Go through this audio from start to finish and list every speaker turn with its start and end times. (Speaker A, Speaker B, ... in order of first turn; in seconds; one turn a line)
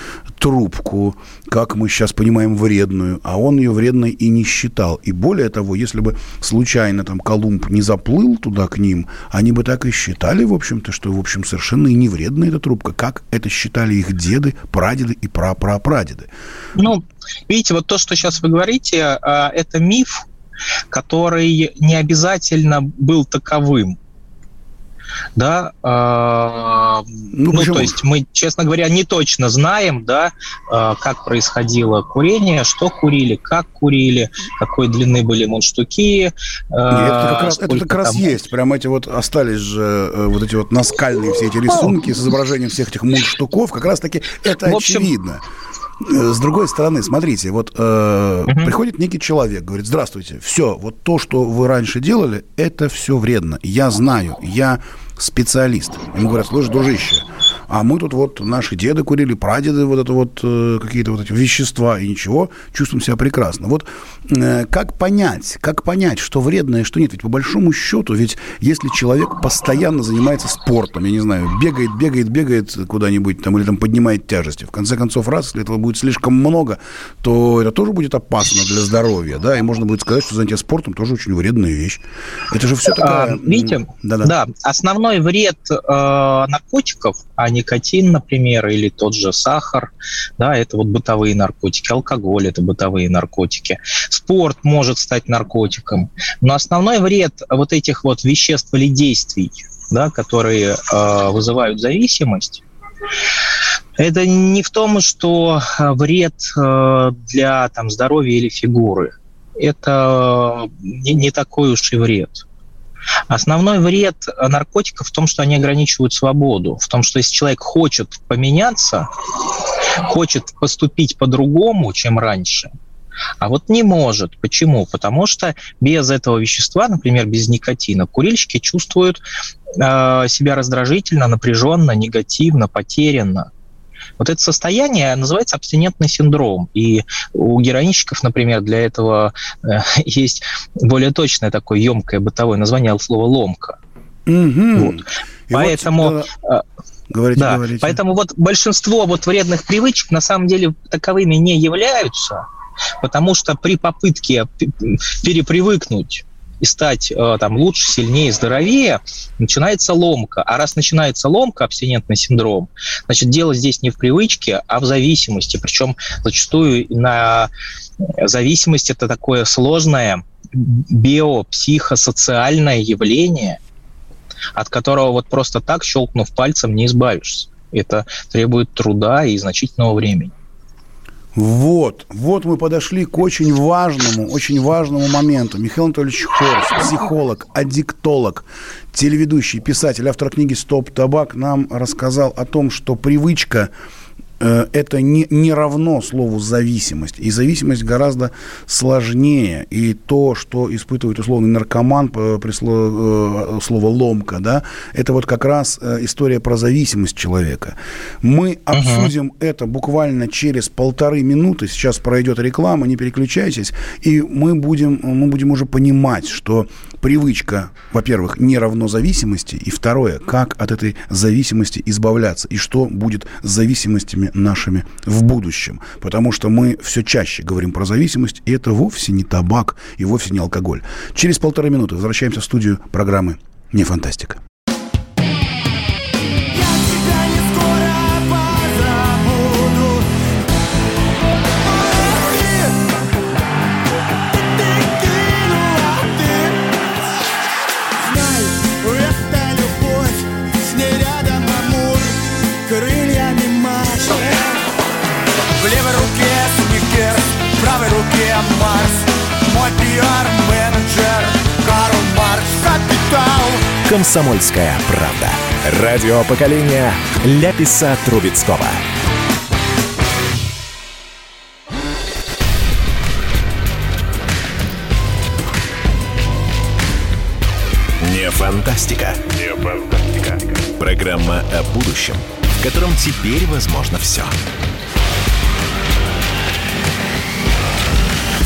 Speaker A: 0.4-16.3
Speaker B: 16.8-20.3
Speaker B: 20.9-24.0
Speaker B: 25.4-38.3
Speaker A: 27.3-28.0
Speaker A: 36.9-45.4
Speaker B: 44.5-45.1
Speaker A: 46.0-84.4
Speaker B: 48.5-48.7
Speaker B: 82.9-102.6
Speaker B: 104.0-112.4
Speaker B: 113.3-119.1
Speaker B: 120.0-122.7
Speaker B: 123.4-129.2
Speaker B: 129.8-133.5
Speaker B: 134.2-143.8
Speaker A: 144.3-146.3
Speaker B: 145.5-146.6
Speaker A: 147.1-148.0
Speaker B: 147.4-152.4
Speaker B: 153.0-167.5
Speaker B: 168.2-173.6
Speaker B: 174.6-180.3
Speaker A: 181.3-193.7
Speaker A: 194.4-234.4
Speaker B: 208.7-209.1
Speaker C: 263.8-268.9
Speaker C: 278.0-284.4